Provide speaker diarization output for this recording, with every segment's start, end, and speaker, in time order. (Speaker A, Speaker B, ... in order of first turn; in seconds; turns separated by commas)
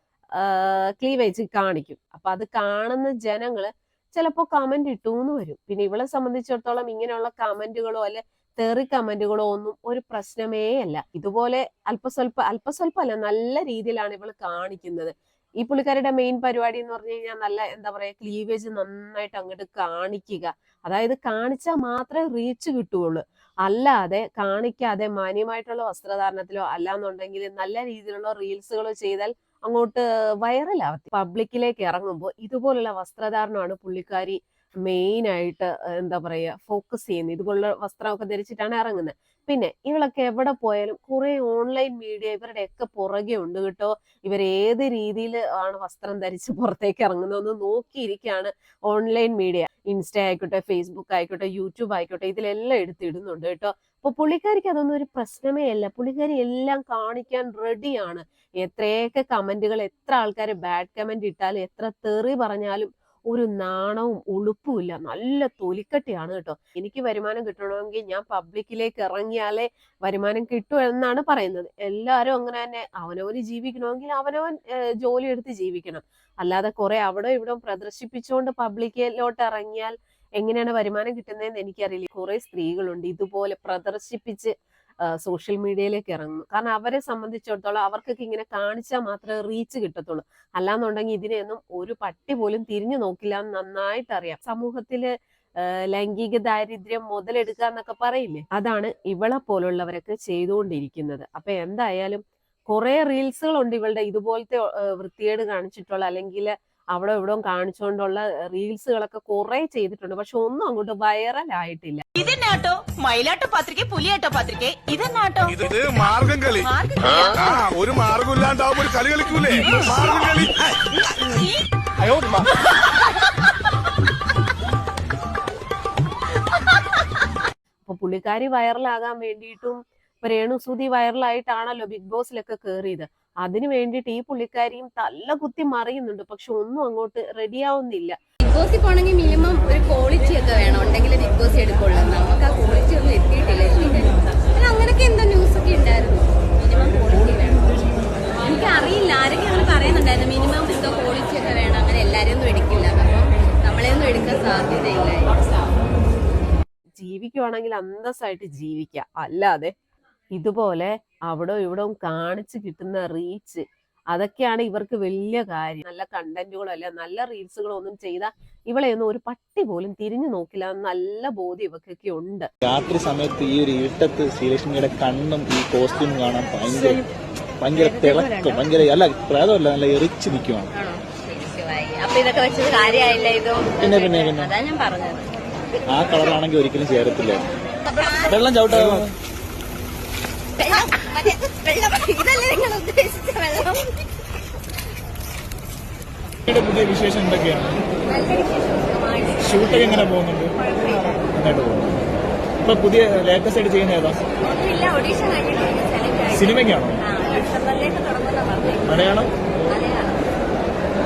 Speaker A: 0.3-84.5, Speaker A: 85.0-112.0, Speaker B: 112.2-114.9, Speaker C: 115.4-120.8, Speaker D: 117.0-117.4, Speaker C: 122.0-122.4, Speaker A: 127.8-138.2, Speaker D: 138.4-147.8, Speaker D: 148.4-155.3, Speaker A: 157.0-159.7, Speaker A: 160.3-172.5, Speaker E: 172.6-177.0, Speaker E: 177.6-180.7, Speaker D: 180.7-185.3, Speaker E: 183.8-184.5, Speaker E: 185.9-187.4, Speaker D: 187.8-188.4, Speaker E: 188.3-189.1, Speaker D: 190.6-193.9, Speaker E: 196.4-197.8, Speaker D: 198.1-201.2, Speaker E: 199.4-200.5, Speaker E: 201.3-202.0, Speaker E: 202.6-204.2, Speaker D: 204.4-209.1, Speaker E: 206.3-207.0, Speaker E: 208.8-209.3, Speaker D: 209.7-210.2